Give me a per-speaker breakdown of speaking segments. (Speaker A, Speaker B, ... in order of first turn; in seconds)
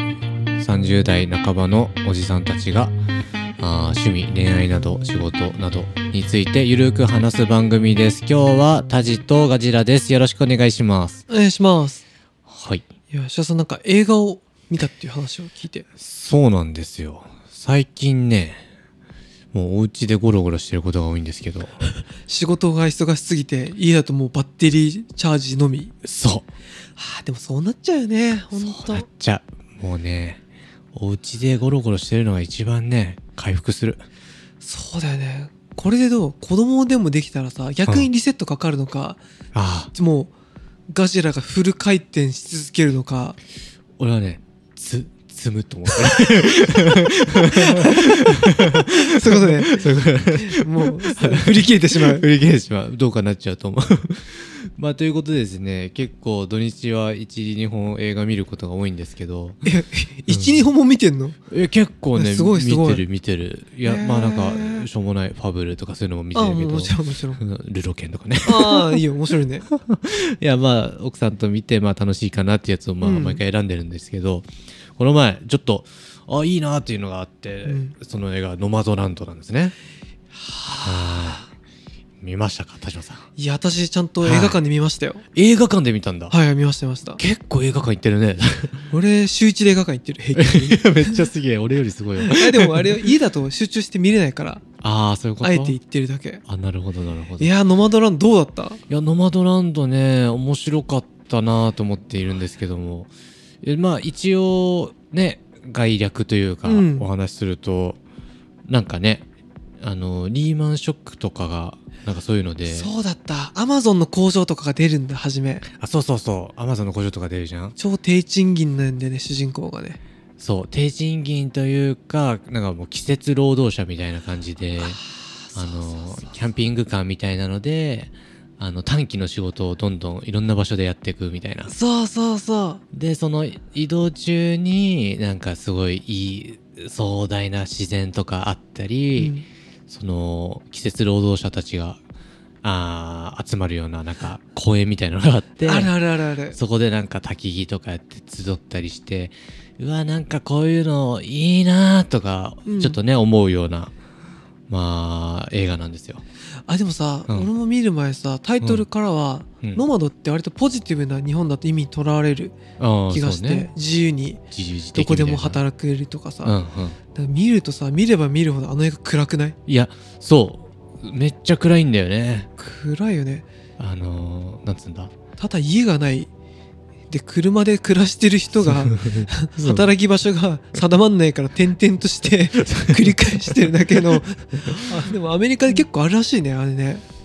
Speaker A: 0.6-3.0, 3.6-11.2, 12.5-12.9, 16.0-18.6, 19.5-21.8, 26.0-26.5, 28.5-30.4, 30.9-34.0, 39.5-39.9, 44.0-59.6, 60.3-60.6, 61.5-69.0, 69.7-79.8, 80.8-81.4, 82.2-83.2, 84.2-84.6, 85.3-86.3, 87.2-88.9, 90.3-92.9, 94.8-95.8, 96.5-97.5, 98.9-103.1, 103.6-108.0, 108.7-109.2, 109.8-112.9, 115.7-117.8, 120.4-125.0, 125.5-131.7, 132.9-139.3, 139.9-142.0, 142.6-145.9, 146.5-153.9, 154.7-156.2, 162.8-163.7, 164.5-165.6, 166.4-167.0, 169.7-172.5, 173.8-175.1, 178.6-179.9, 182.7-183.1
Speaker B: 11.3-12.0, 13.1-15.9, 22.3-25.9, 27.0-29.1, 34.6-39.2, 39.9-40.3, 40.9-43.4, 49.0-52.2, 59.6-61.4, 62.1-63.0, 63.8-64.9, 66.3-67.4, 68.4-69.7, 73.0-73.4, 77.7-77.9, 80.4-81.5, 83.4-85.2, 86.3-87.2, 88.9-91.2, 92.2-94.6, 95.4-96.4, 97.4-98.8, 106.6-107.1, 112.7-115.6, 117.8-120.0, 125.5-125.8, 131.7-132.8, 139.2-139.4, 145.6-146.6, 152.7-153.0, 156.7-162.6, 163.1-164.4, 164.9-166.6, 167.1-169.6, 172.6-173.4, 175.4-176.3, 177.1-187.0